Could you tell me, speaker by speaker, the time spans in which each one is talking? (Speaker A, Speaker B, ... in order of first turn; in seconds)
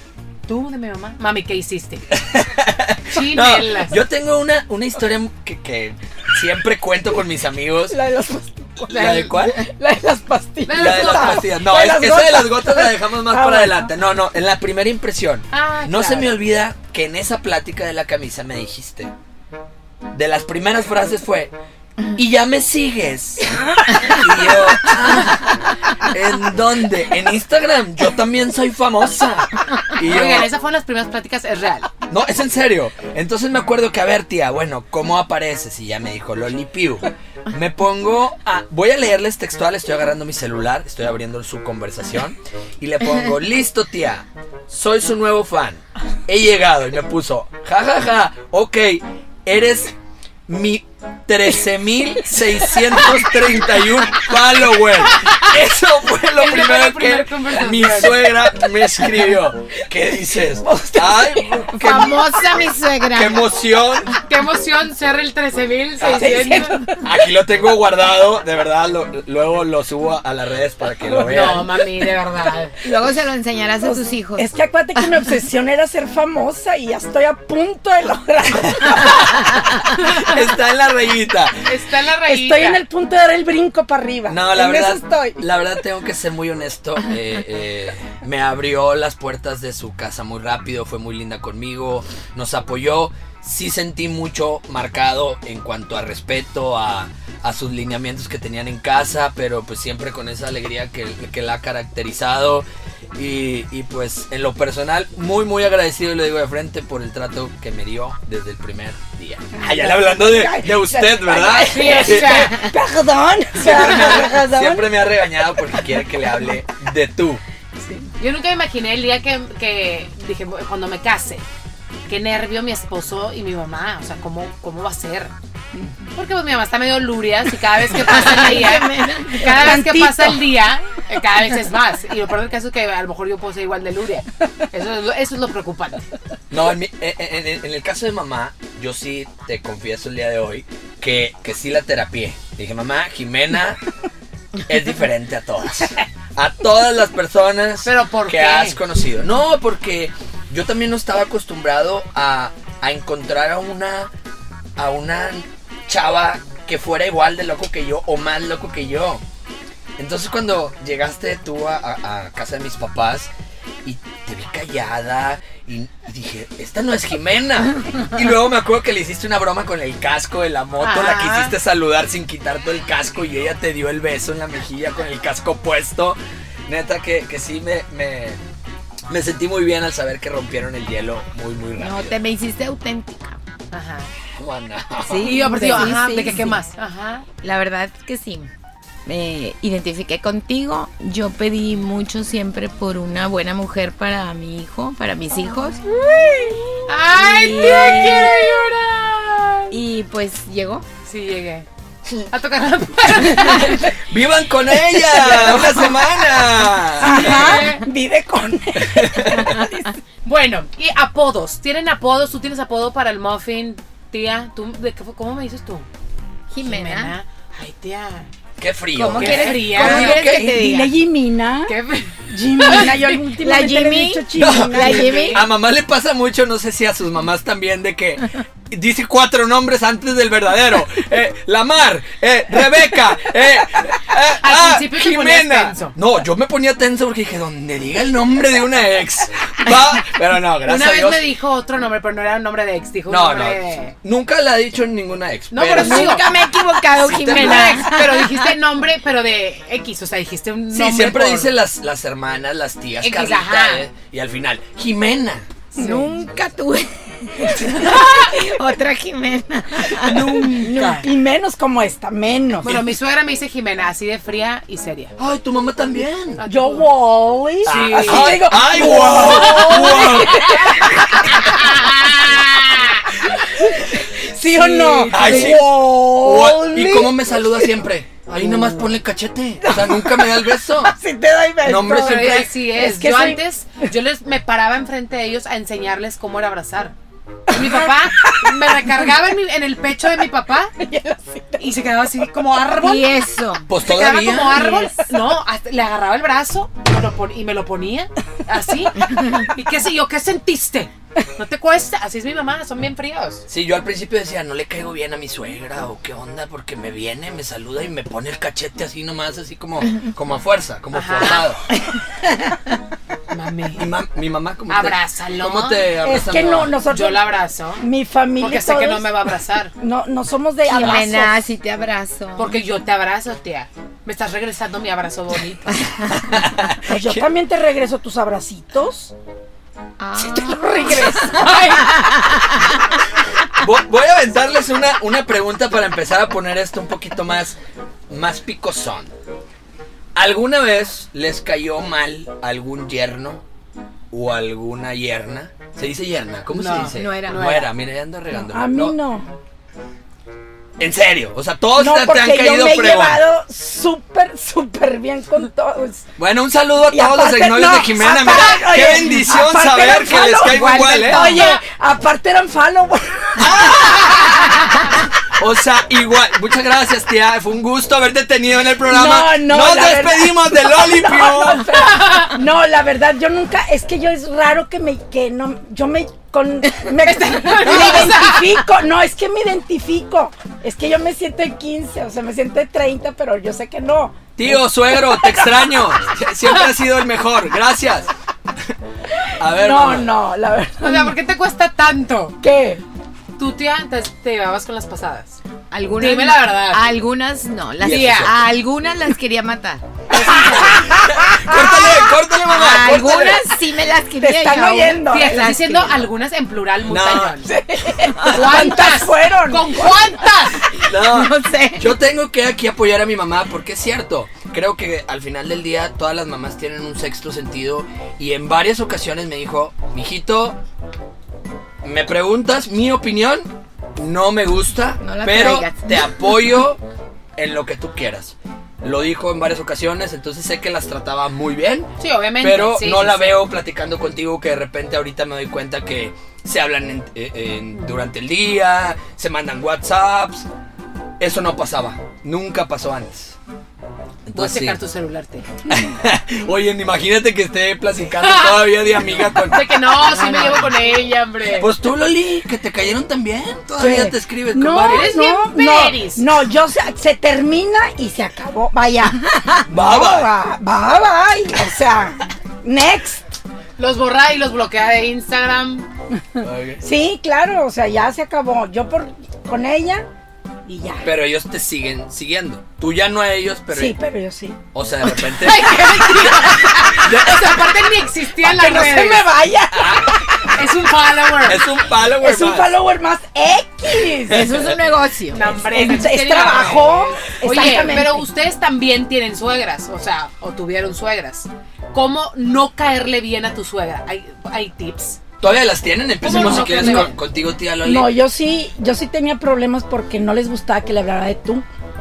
Speaker A: 0.5-2.0, 3.1-4.0, 8.9-9.3, 10.7-11.5, 15.5-16.3, 30.0-31.9, 55.1-55.4, 56.4-58.3, 64.1-66.8, 71.2-72.8, 81.7-82.8, 111.7-112.7, 118.2-121.4, 122.1-125.3, 126.2-136.0, 147.8-148.8, 170.8-171.5, 183.7-184.1, 185.2-187.3, 196.9-199.7, 201.1-201.7, 202.3-203.9, 205.2-205.8, 207.0-207.8, 210.2-215.9, 216.6-218.3, 219.2-220.2, 221.7-223.2, 224.8-225.4, 234.4-235.9, 240.6-243.9, 245.5-246.3, 247.3-251.5, 253.0-253.8, 255.8-256.1, 260.0-261.1, 262.6-265.1, 266.4-266.9, 267.6-270.8, 271.3-273.1, 274.4-275.6, 281.9-286.9, 287.5-290.7, 291.6-293.1, 293.8-303.4, 310.9-311.4, 313.3-313.9, 314.7-315.8, 316.9-317.8, 318.4-319.7, 322.4-326.0, 331.3-331.9, 346.5-347.7, 361.0-361.6, 371.9-372.3, 377.0-378.6, 390.8-392.4, 393.4-395.4, 396.0-396.8, 397.9-398.2, 400.1-400.8, 405.1-407.5, 408.2-410.7, 432.0-433.3, 444.4-445.5, 448.2-448.7, 449.5-451.7, 454.9-456.3, 463.8-465.9, 475.2-479.3, 480.5-481.6, 485.3-495.2, 496.2-497.1
Speaker B: 2.1-8.0, 8.9-9.6, 10.8-19.1, 20.1-21.5, 22.1-30.5, 32.1-49.9, 50.5-64.2, 66.0-66.4, 67.0-71.8, 78.7-81.7, 84.3-112.7, 113.6-117.4, 136.5-143.8, 144.7-154.1, 154.8-159.2, 160.0-163.3, 163.8-178.4, 179.1-182.2, 184.3-186.0, 203.3-207.6, 208.8-209.7, 218.6-220.6, 224.4-241.3, 243.1-246.3, 247.0-247.9, 250.7-255.5, 257.6-258.1, 265.2-266.4, 267.6-271.1, 275.1-280.9, 281.6-282.5, 293.7-294.7, 303.5-311.6, 313.8-316.8, 326.1-327.2, 333.5-337.6, 338.1-339.1, 340.1-343.4, 344.1-349.0, 350.8-353.2, 356.2-361.4, 363.4-364.8, 365.4-371.9, 384.4-388.1, 389.4-390.1, 397.8-398.3, 400.3-403.5, 406.9-407.4, 410.8-420.6, 421.8-426.8, 427.4-440.5, 441.2-443.4, 444.3-444.8, 445.7-450.6, 451.5-455.1, 459.7-460.3, 466.4-466.8, 471.0-474.0, 474.7-477.7, 479.7-480.2, 481.4-482.7, 484.3-484.8, 495.4-498.1
Speaker C: 7.9-13.9, 60.6-61.8, 66.1-67.1, 71.2-71.6, 73.8-79.6, 82.3-85.4, 109.5-116.1, 117.8-118.1, 129.4-130.5, 205.2-205.7, 207.0-209.9, 220.2-221.8, 222.3-225.4, 260.1-262.8, 266.4-271.5, 273.4-277.7, 278.4-278.8, 279.6-283.4, 287.5-288.9, 290.8-291.8, 294.5-295.1, 316.0-317.3, 317.8-319.1, 319.8-321.5, 326.8-329.1, 330.2-331.6, 348.3-349.3, 351.8-356.1, 356.9-364.3, 368.9-385.8, 389.4-391.2, 392.4-392.8, 400.1-402.1, 404.2-405.6, 407.4-410.1, 453.8-463.2, 466.4-470.1, 470.7-471.1, 473.7-474.6, 478.4-480.5, 482.2-484.5, 485.6-488.3, 496.2-497.1, 497.8-501.6
Speaker D: 61.8-63.5, 72.8-75.0, 128.0-129.8, 181.8-183.4, 185.1-186.6, 187.4-188.5, 189.1-198.6, 199.7-200.8, 216.5-217.2, 218.9-221.0, 223.4-225.4, 245.8-248.5, 255.8-260.4, 292.8-293.7, 320.7-322.6, 330.0-332.6, 346.9-347.7, 361.1-361.5, 395.7-399.8, 402.5-406.0, 410.9-411.9, 425.0-426.1, 450.2-450.7, 484.3-485.7